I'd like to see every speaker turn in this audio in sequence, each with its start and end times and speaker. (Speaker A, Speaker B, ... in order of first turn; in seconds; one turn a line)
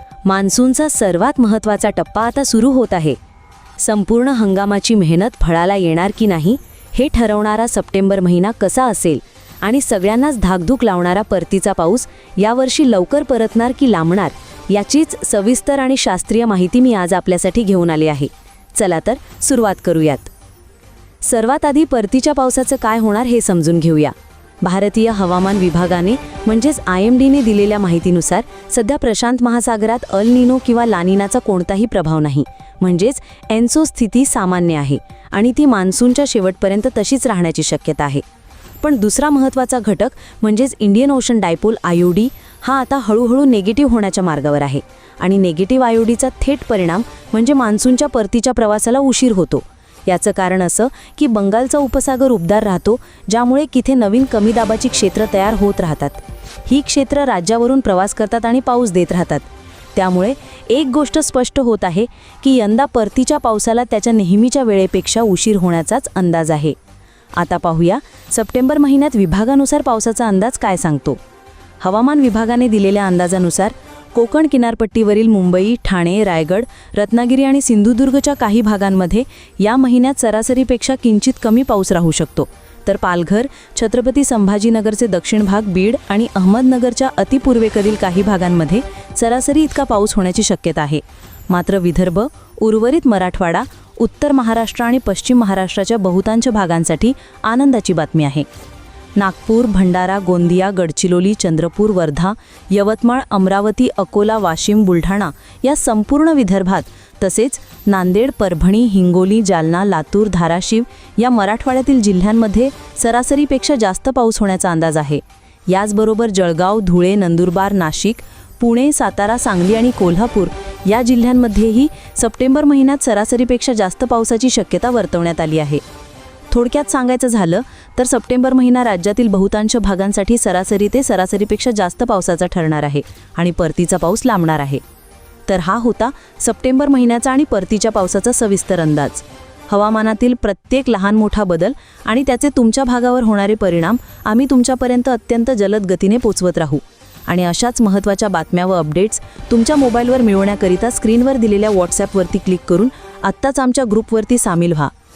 Speaker A: 0.2-3.2
Speaker A: 3.8-20.3
Speaker A: 21.2-38.2
Speaker A: 38.8-66.8
Speaker A: 67.3-71.2
Speaker A: 71.8-98.5
Speaker A: 99.2-125.8
Speaker A: 126.5-134.8
Speaker A: 135.5-154.9